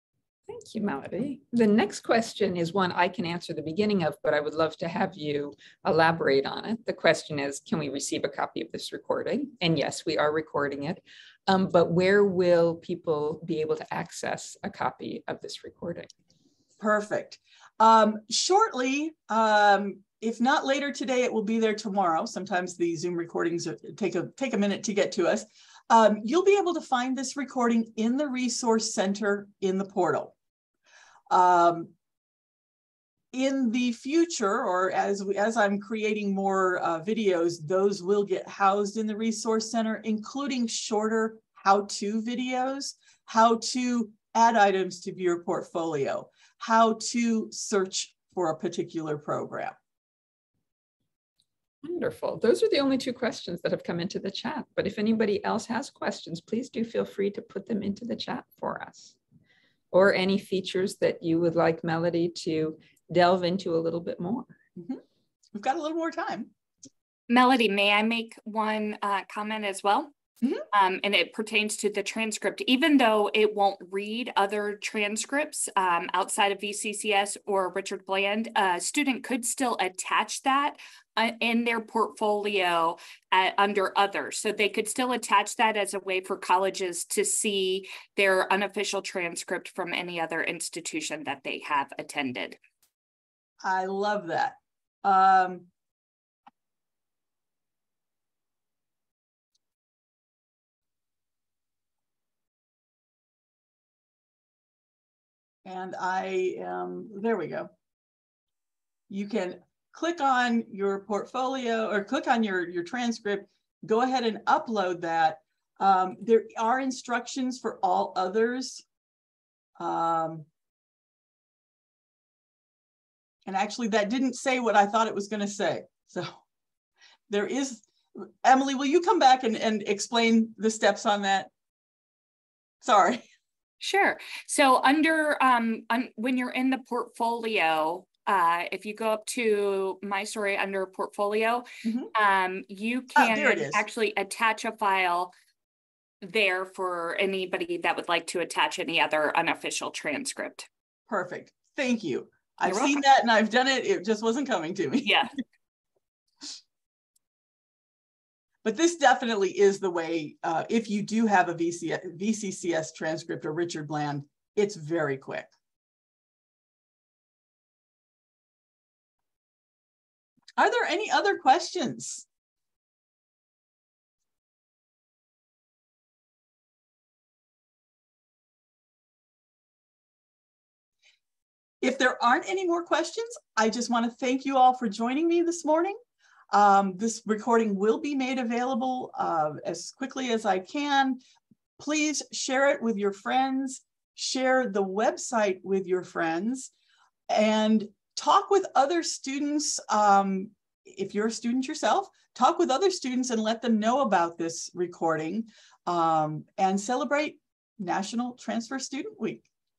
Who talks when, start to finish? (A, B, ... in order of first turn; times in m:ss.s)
0:00.5-0:16.1 A
0:16.8-0:30.4 B
0:31.3-0:31.9 B
0:33.3-0:49.8 B
0:51.8-0:59.2 A
0:59.9-1:04.5 A
1:04.8-1:05.0 B
1:05.6-1:06.5 B
1:07.3-1:10.1 C
1:10.7-1:32.6 C
1:33.6-1:35.7 B
1:45.6-1:47.7 B
1:49.1-1:58.8 B
1:59.8-2:00.5 B
2:03.5-2:06.4 B
2:07.3-2:11.5 B
2:12.8-2:13.3 B
2:13.8-2:25.3 C
2:21.8-2:22.1 B
2:23.2-2:23.8 B
2:26.2-2:30.7 C
2:31.1-2:35.1 B
2:32.7-2:33.0 C
2:35.0-2:35.4 C
2:38.6-2:45.5 B
2:50.6-2:52.3 B
3:01.8-3:06.0 B
3:06.5-3:11.2 B
3:11.8-3:16.7 B
3:17.3-3:29.5 B